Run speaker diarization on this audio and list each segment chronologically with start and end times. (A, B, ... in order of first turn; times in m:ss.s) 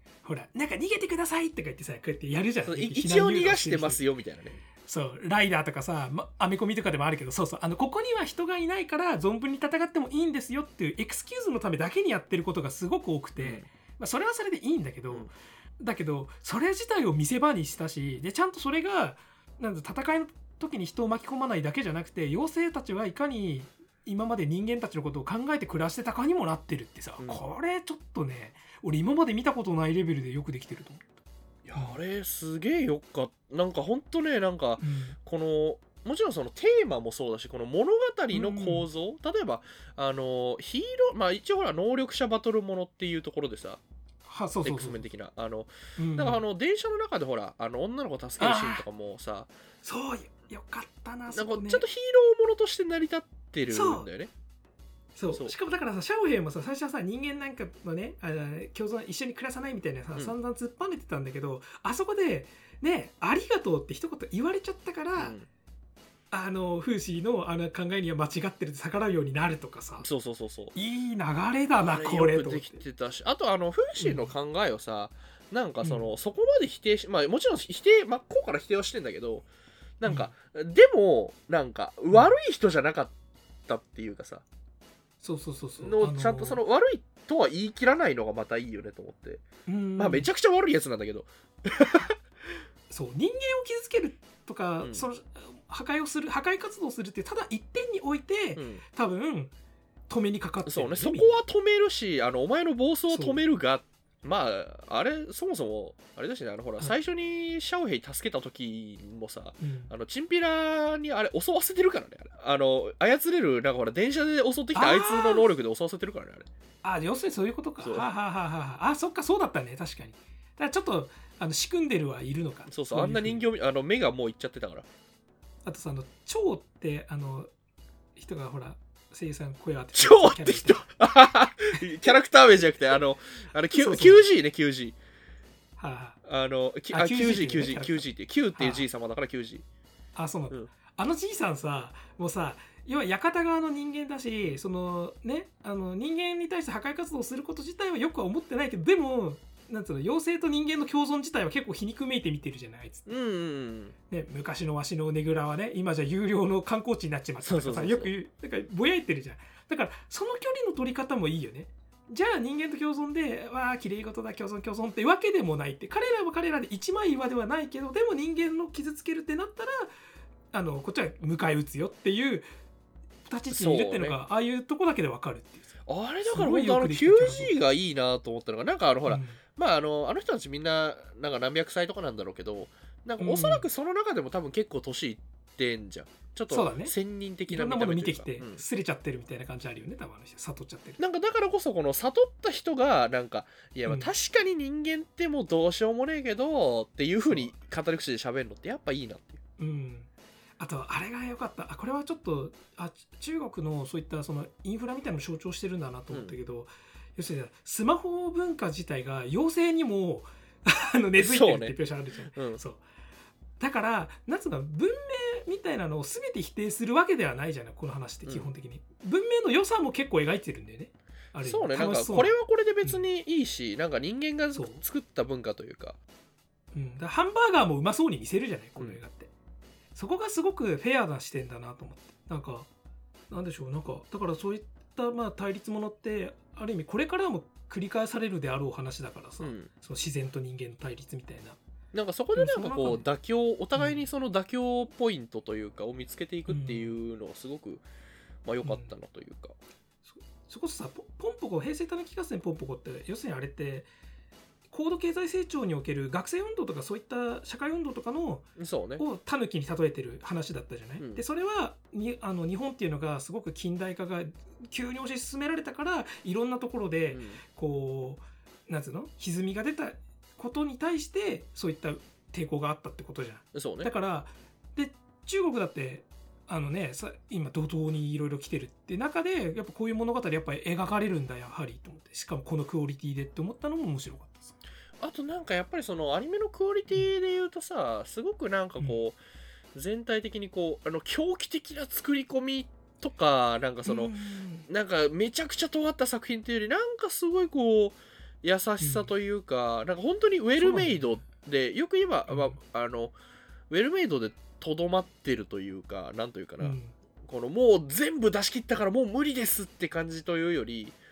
0:00.2-0:04.0 A
0:02.6-0:04.6 B
0:04.8-0:31.0 A
0:13.4-0:13.7 B
0:31.6-0:43.8 B
0:34.8-0:35.2 A
0:38.3-0:38.9 A
0:44.2-0:45.0 A
0:44.6-0:49.5 B
0:46.0-0:46.4 A
0:48.4-0:48.8 A
0:49.8-0:51.8 A
0:51.3-0:54.3 B
0:53.7-0:54.1 A
0:55.2-1:05.4 A
1:05.2-1:05.5 B
1:06.3-1:10.1 A
1:10.0-1:10.7 B
1:10.7-1:12.8 A
1:11.8-1:19.4 B
1:14.0-1:14.3 A
1:15.8-1:16.1 A
1:20.0-1:23.1 B
1:20.0-1:20.3 A
1:23.7-1:24.4 B
1:25.2-1:26.6 A
1:25.8-1:29.4 B
1:29.6-1:30.3 A
1:30.0-1:32.1 B
1:32.9-1:39.5 A
1:34.8-1:35.0 B
1:38.6-1:38.8 B
1:40.1-1:41.4 A
1:40.6-1:56.5 B
1:43.1-1:43.4 A
1:49.6-1:49.9 A
1:54.7-1:55.5 A
1:56.8-2:03.4 A
1:57.8-1:58.1 B
2:02.7-2:04.8 B
2:05.6-2:07.5 A
2:08.2-2:10.8 A
2:09.9-2:15.0 B
2:13.7-2:14.2 A
2:15.8-2:16.2 A
2:16.2-2:19.6 B
2:16.9-2:18.8 A
2:20.1-2:33.1 A
2:33.1-2:33.9 B
2:34.1-2:49.9 A
2:37.4-2:38.1 B
2:50.5-2:52.5 A
2:53.2-2:55.7 A
2:53.5-2:54.2 B
2:55.8-3:08.6 B
2:56.3-2:57.5 A
2:59.0-2:59.4 A
3:03.2-3:03.6 A
3:06.5-3:06.9 A
3:07.5-3:11.0 A
3:11.0-3:19.4 B
3:13.8-3:14.1 A
3:17.2-3:17.5 A
3:19.6-3:20.1 A
3:20.6-3:32.8 A
3:26.1-3:26.4 B
3:31.2-3:31.8 B
3:32.3-3:32.6 B
3:33.6-3:43.0 A
3:38.2-3:38.5 B
3:41.4-3:46.0 B
3:44.5-3:44.8 A
3:46.7-3:49.3 A
3:49.9-3:52.7 A
3:53.3-4:01.6 A
3:59.4-3:59.7 B
4:01.9-4:07.8 B
4:02.3-4:03.0 A
4:03.8-4:04.0 A
4:06.5-4:07.0 A
4:08.4-4:09.5 B
4:08.6-4:08.9 A
4:10.0-4:13.9 A
4:14.7-4:44.6 A
4:18.6-4:19.0 B
4:21.0-4:21.2 B
4:27.1-4:27.4 B
4:33.5-4:33.9 B
4:45.0-4:49.2 B
4:49.7-4:54.2 B
4:53.8-4:54.7 A
4:54.7-5:03.1 B
4:58.8-4:59.1 A
5:00.6-5:01.1 A
5:02.3-5:02.6 A
5:03.7-5:11.0 B
5:06.6-5:06.9 A